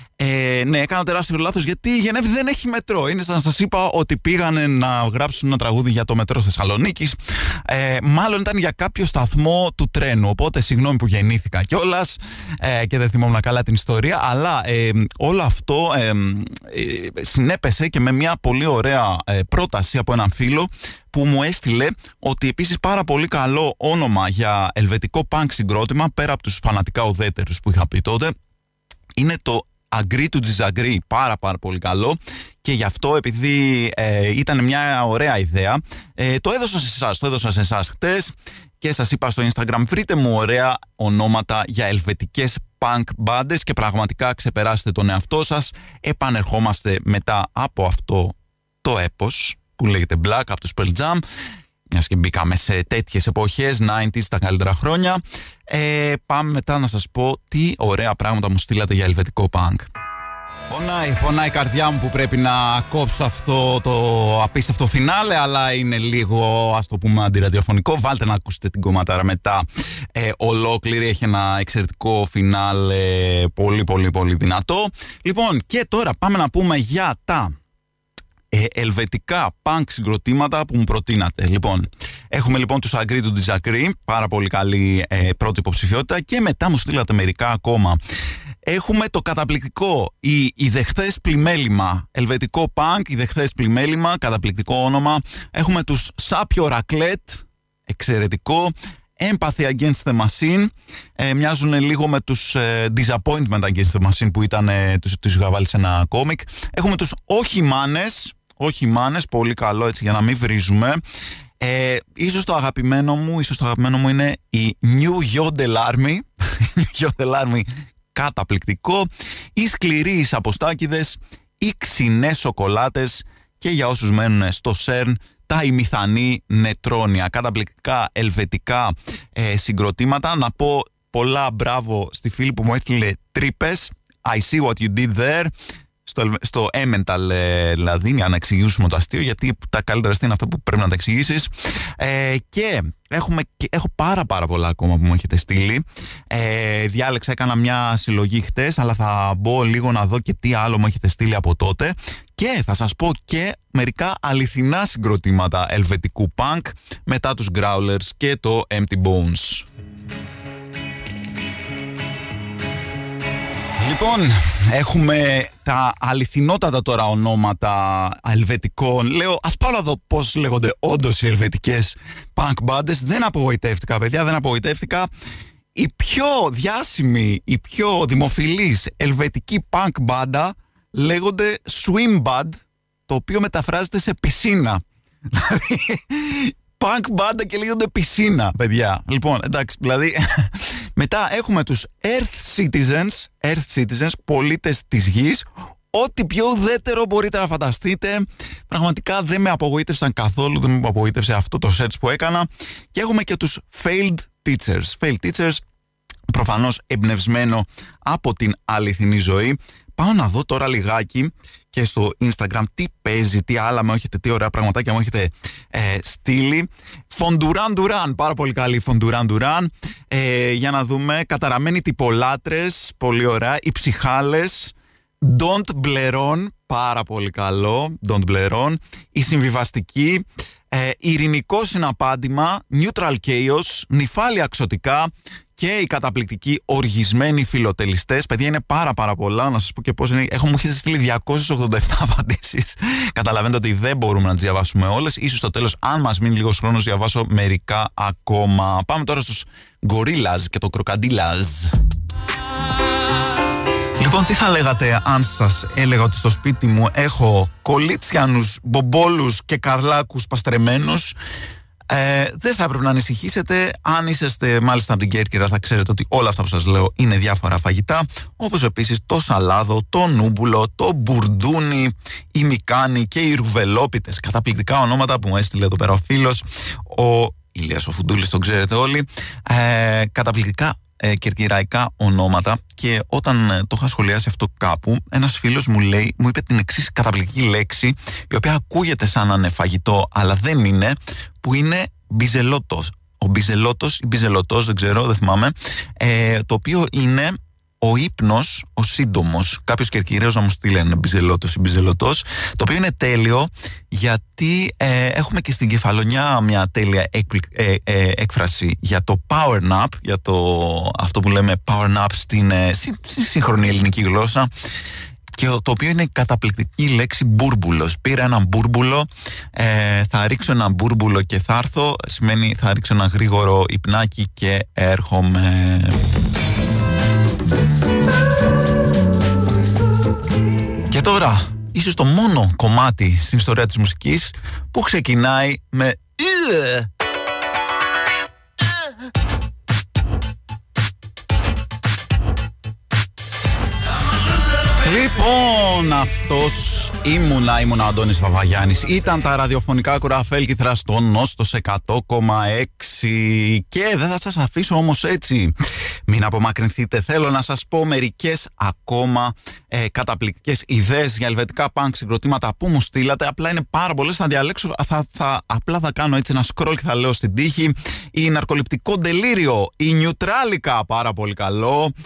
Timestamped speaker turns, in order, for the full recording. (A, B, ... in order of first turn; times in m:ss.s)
0:00.2-0:28.3 A
0:29.2-0:51.2 A
0:51.9-0:59.9 A
1:00.7-1:17.6 A
1:18.5-1:28.0 A
1:28.7-1:51.0 A
1:51.6-2:15.5 A
2:16.0-2:39.7 A
2:43.8-2:55.1 A
2:55.8-3:25.6 A
3:26.3-4:11.7 A
4:14.0-4:21.2 A
4:21.9-5:14.5 A
5:15.3-5:26.0 A
5:30.9-5:36.9 A
5:44.8-5:55.6 A
5:56.1-6:11.9 A